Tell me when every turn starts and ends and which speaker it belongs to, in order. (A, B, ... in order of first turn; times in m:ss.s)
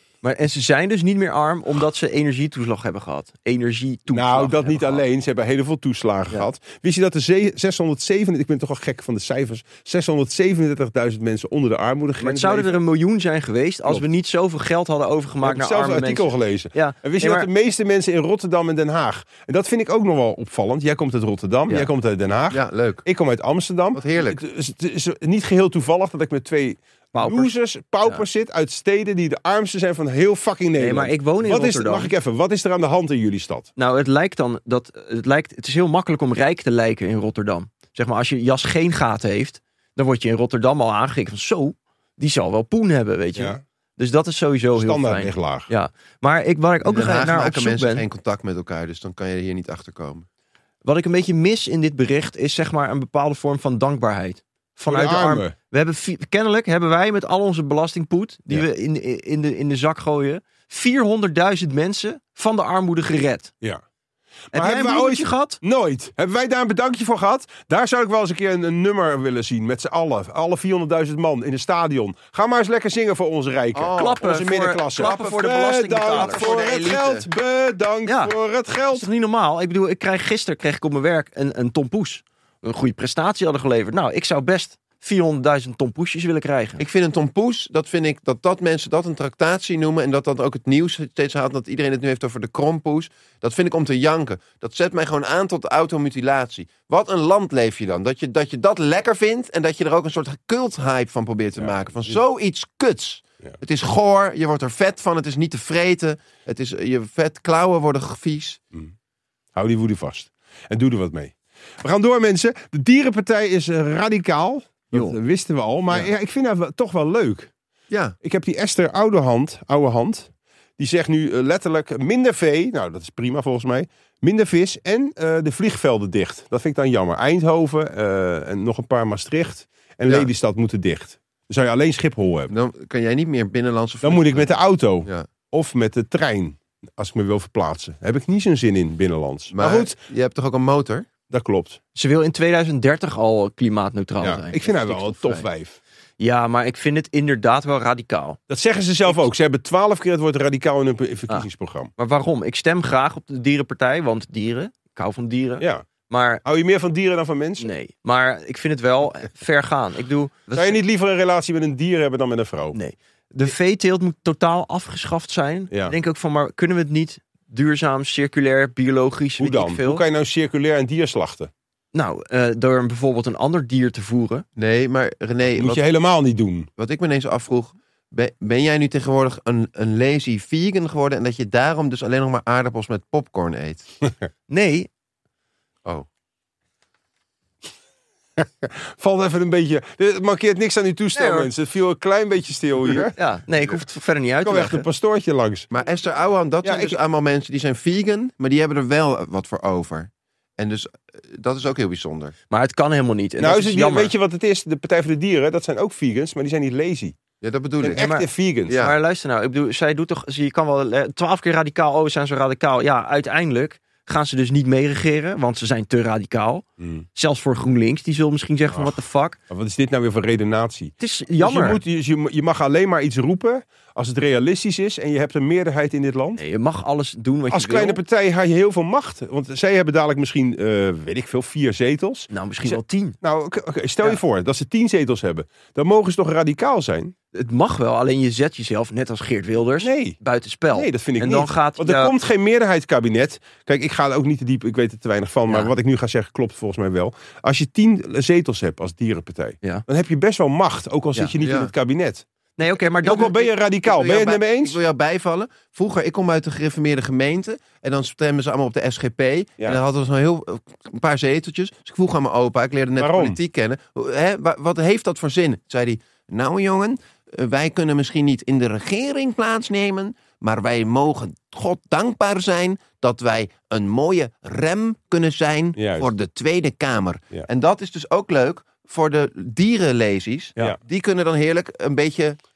0:00.2-0:05.0 A
0:04.1-0:12.8 B
0:12.2-0:17.5 A
0:15.4-0:33.7 B
0:22.5-0:23.0 C
0:23.9-0:24.4 C
0:27.1-0:27.5 A
0:30.8-0:32.1 A
0:33.8-0:48.0 A
0:44.8-0:45.7 B
0:46.8-0:50.3 C
0:50.8-1:03.5 A
0:54.9-0:55.5 B
1:04.5-1:19.1 B
1:04.5-1:05.6 A
1:13.8-1:14.2 C
1:14.0-1:16.6 A
1:15.0-1:17.3 C
1:18.1-1:18.3 A
1:18.9-1:26.8 A
1:26.8-1:48.6 C
1:41.6-1:42.2 B
1:49.5-1:57.5 B
1:54.9-1:55.2 A
1:57.9-1:58.2 C
1:58.2-2:12.5 B
2:12.5-2:15.3 C
2:14.0-2:20.0 B
2:19.5-2:21.1 C
2:21.3-2:21.8 B
2:22.0-2:25.4 A
2:24.2-2:25.8 B
2:26.2-2:28.4 A
2:28.5-2:31.9 B
2:31.3-2:36.4 A
2:35.6-2:35.9 B
2:36.4-2:37.7 B
2:37.6-2:40.8 A
2:40.5-2:42.8 B
2:42.7-2:50.0 A
2:49.4-2:51.5 B
2:51.9-2:54.4 A
2:54.6-2:55.8 C
2:55.6-2:56.7 B
2:56.8-3:03.9 C
3:04.5-3:04.9 A
3:08.4-3:13.1 B
3:11.1-3:11.5 A
3:13.1-3:14.9 A
3:14.4-3:15.7 B
3:15.7-3:22.3 C
3:16.6-3:17.0 B
3:22.5-3:24.1 A
3:23.4-3:27.2 B
3:27.4-3:28.0 C
3:27.8-3:28.8 B
3:27.9-3:39.4 A
3:28.7-3:29.0 C
3:36.8-3:37.1 B
3:39.5-3:46.4 B
3:41.0-3:41.8 A
3:46.4-3:48.0 A
3:47.5-3:57.1 B
3:52.3-3:53.2 A
3:57.3-4:02.1 A
3:59.8-4:00.2 B
4:00.7-4:12.2 B
4:11.4-4:11.7 C
4:12.6-4:13.4 A
4:13.0-4:14.8 B
4:13.7-4:42.4 C
4:23.0-4:23.4 B
4:35.8-4:36.1 B